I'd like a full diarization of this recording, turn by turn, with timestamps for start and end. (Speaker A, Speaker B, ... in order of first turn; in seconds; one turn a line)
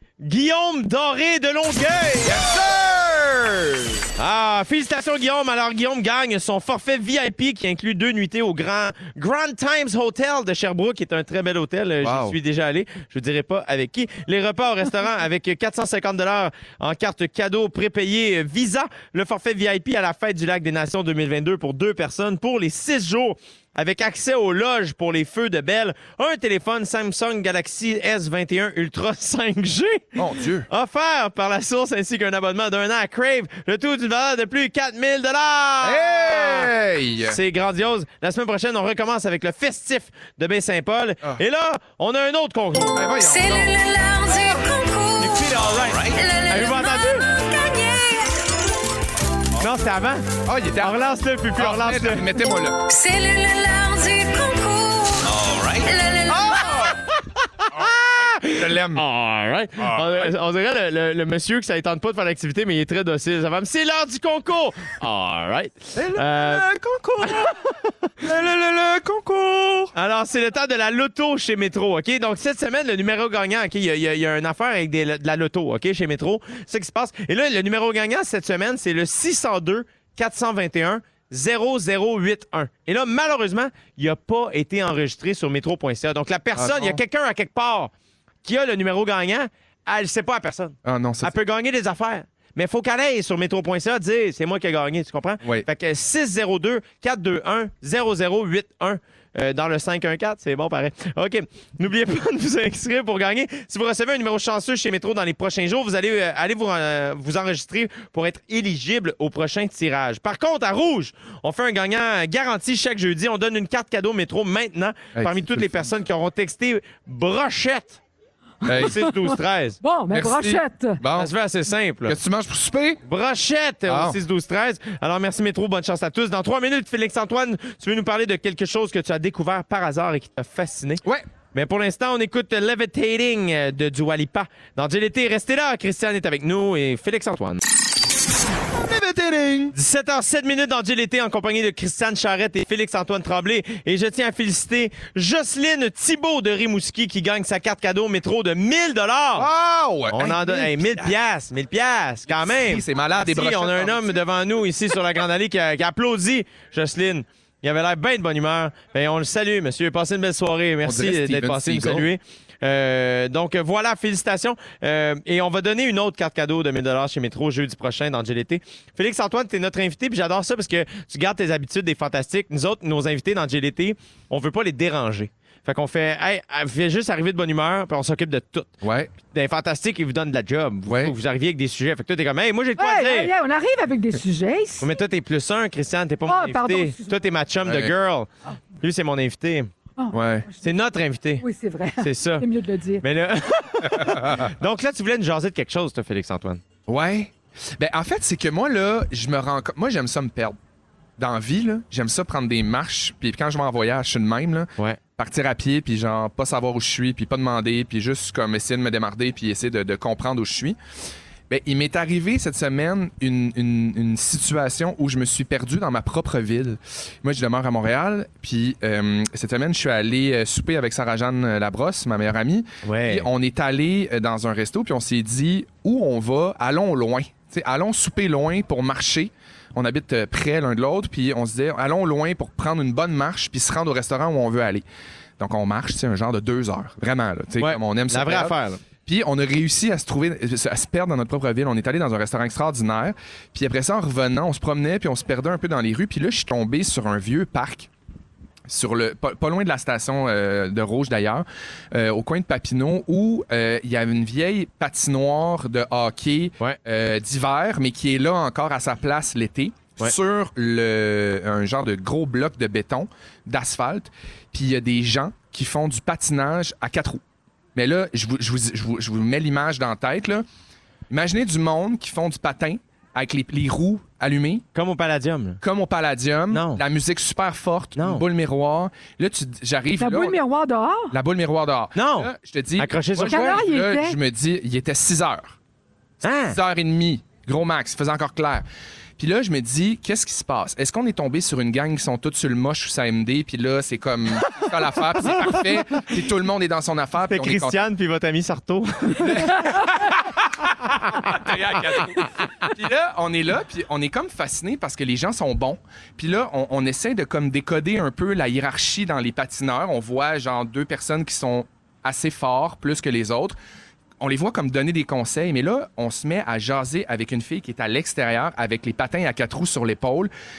Speaker A: 0.2-2.4
Speaker B: 2.2-4.1
Speaker A: 4.2-36.7
Speaker B: 12.0-12.4
Speaker B: 30.2-30.7
Speaker B: 35.8-37.4
Speaker A: 37.2-43.0
Speaker B: 42.9-43.8
Speaker C: 43.2-48.5
Speaker B: 44.3-44.6
Speaker A: 45.2-47.3
Speaker B: 45.9-46.2
Speaker A: 49.6-52.4
Speaker B: 50.5-52.9
Speaker C: 52.9-56.9
Speaker B: 56.3-57.0
Speaker A: 57.6-66.7
Speaker B: 57.8-59.0
Speaker B: 59.8-60.3
Speaker B: 66.0-67.5
Speaker A: 67.2-67.7
Speaker B: 68.2-69.9
Speaker A: 70.0-87.9
Speaker B: 86.5-87.0
Speaker A: 88.4-118.0
Speaker B: 90.8-91.3
Speaker B: 115.2-115.9
Speaker D: 118.7-121.0
Speaker B: 118.7-119.0
Speaker A: 118.8-119.8
Speaker B: 120.1-121.3
Speaker A: 121.1-122.2
Speaker B: 122.1-123.0
Speaker A: 123.1-131.0
Speaker B: 123.9-124.2
Speaker A: 131.5-137.6
Speaker B: 138.7-139.7
Speaker A: 139.7-149.5
Speaker B: 149.4-151.2
Speaker A: 150.1-178.7
Speaker B: 152.3-154.2
Speaker B: 160.8-162.1
Speaker B: 178.8-179.1
Speaker A: 179.3-183.3
Speaker B: 180.9-181.1
Speaker D: 182.8-184.9
Speaker A: 184.8-188.3
Speaker D: 186.3-187.2
Speaker B: 187.6-187.9
Speaker A: 188.8-189.7
Speaker D: 190.0-190.7
Speaker B: 190.1-190.5
Speaker A: 190.6-191.4
Speaker D: 191.4-193.0
Speaker A: 192.0-192.5
Speaker A: 193.0-196.6
Speaker B: 194.0-194.5
Speaker B: 196.9-200.6
Speaker B: 201.2-210.8
Speaker B: 211.5-234.8
Speaker A: 222.8-223.3
Speaker B: 235.4-247.9
Speaker A: 237.6-238.8
Speaker B: 248.7-267.2
Speaker B: 267.8-270.4
Speaker B: 271.1-274.6
Speaker A: 274.8-275.6
Speaker B: 275.6-280.4
Speaker A: 276.5-276.8
Speaker A: 278.0-278.2
Speaker D: 280.0-281.1
Speaker B: 281.1-285.6
Speaker A: 282.0-283.7
Speaker D: 283.2-284.2
Speaker A: 286.2-286.6
Speaker B: 286.5-288.6
Speaker B: 289.2-297.8
Speaker A: 295.4-296.1
Speaker A: 297.3-300.0
Speaker B: 299.2-313.6
Speaker A: 301.0-301.4
Speaker B: 314.2-320.3